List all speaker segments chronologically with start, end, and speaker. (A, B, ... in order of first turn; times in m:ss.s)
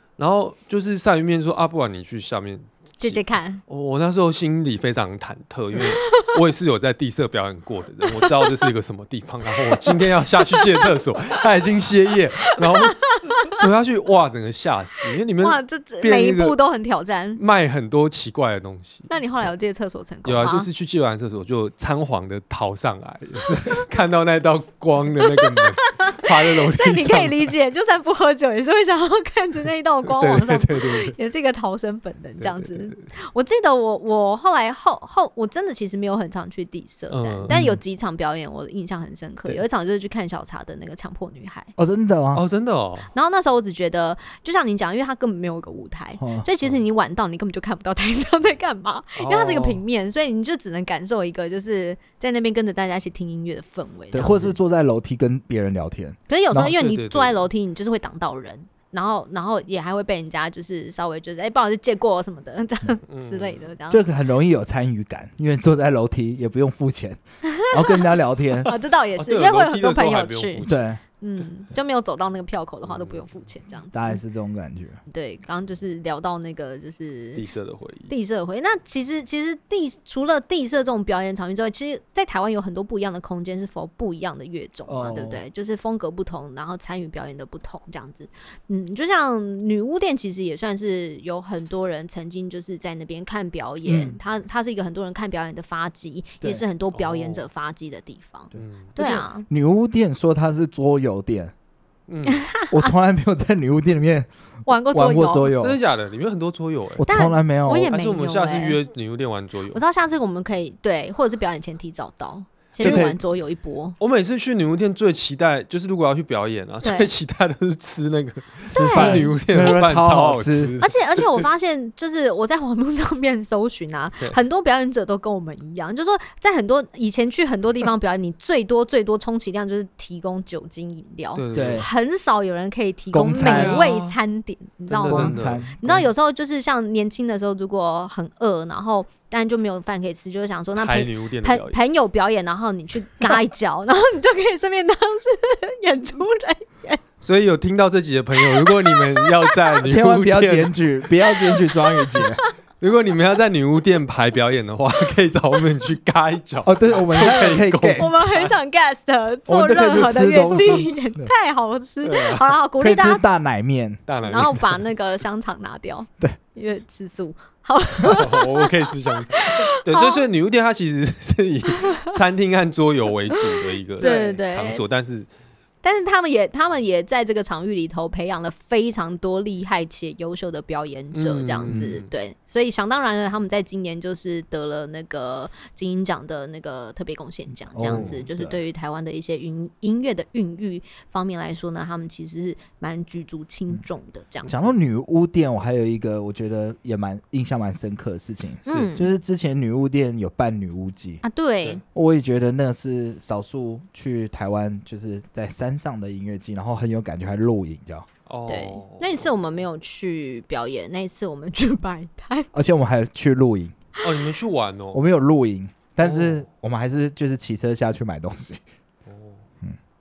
0:00.2-0:16.6 A
0:03.0-0:03.6 B
0:05.8-0:06.3 B
0:08.2-0:08.5 B
0:09.8-0:10.8 B
0:12.4-0:13.6 B
0:15.4-0:17.4 B
0:17.4-0:19.1 A
0:19.1-0:20.7 B
0:20.2-0:27.5 A
0:25.4-0:41.7 B
0:30.0-0:31.2 A
0:32.4-0:33.0 A
0:37.1-0:37.6 A
0:37.5-0:37.8 C
0:41.8-0:42.4 C
0:42.3-0:43.1 A
0:43.1-0:54.5 B
0:46.2-0:46.4 C
0:49.2-0:49.8 A
0:54.1-0:56.7 C
0:56.3-1:04.0 B
0:56.7-0:57.4 A
1:03.1-1:03.6 A
1:03.9-1:08.7 C
1:07.5-1:08.1 B
1:08.6-1:10.7 B
1:09.2-1:10.8 A
1:10.6-1:11.0 C
1:11.2-1:14.2 B
1:12.9-1:13.2 A
1:13.9-1:15.0 C
1:15.1-1:17.4 B
1:17.4-1:18.1 A
1:18.1-1:39.4 B
1:24.9-1:25.4 C
1:33.8-1:34.2 C
1:36.9-1:37.4 A
1:38.5-1:41.5 C
1:38.6-1:39.0 A
1:42.1-1:42.5 A
1:42.2-1:42.9 B
1:42.7-1:44.3 C
1:44.7-1:45.5 B
1:44.9-1:45.8 C
1:45.6-1:47.1 A
1:47.0-1:47.9 C
1:47.0-1:48.8 B
1:47.8-1:49.8 A
1:49.7-1:54.0 B
1:52.8-1:53.1 A
1:52.8-1:53.2 C
1:54.0-2:01.4 A
1:56.8-1:57.1 B
1:58.7-2:00.7 C
1:58.7-1:59.3 B
2:00.8-2:27.0 B
2:11.3-2:11.9 A
2:11.5-2:11.9 C
2:13.1-2:13.9 C
2:13.4-2:14.2 A
2:14.9-2:16.0 A
2:15.0-2:16.0 C
2:20.8-2:21.8 A
2:27.2-2:30.8 A
2:28.4-2:29.7 B
2:29.8-2:32.4 C
2:31.3-2:32.5 B
2:32.8-2:38.5 A
2:36.6-2:38.2 C
2:37.9-2:43.2 B
2:39.5-2:41.3 C
2:42.0-2:42.6 A
2:42.8-2:44.0 C
2:44.1-2:44.8 A
2:44.2-2:50.2 B
2:48.1-2:55.3 A
2:53.6-2:54.8 B
2:55.8-3:14.7 B
3:01.1-3:02.0 A
3:01.7-3:01.9 C
3:07.7-3:08.6 C
3:07.8-3:08.2 A
3:14.5-3:21.2 C
3:18.6-3:19.1 B
3:21.2-3:21.8 B
3:21.9-3:28.1 C
3:28.3-3:29.3 A
3:28.5-3:32.5 B
3:32.5-3:33.8 C
3:34.0-3:35.0 A
3:34.9-3:38.6 C
3:36.0-3:36.4 A
3:39.0-3:39.4 A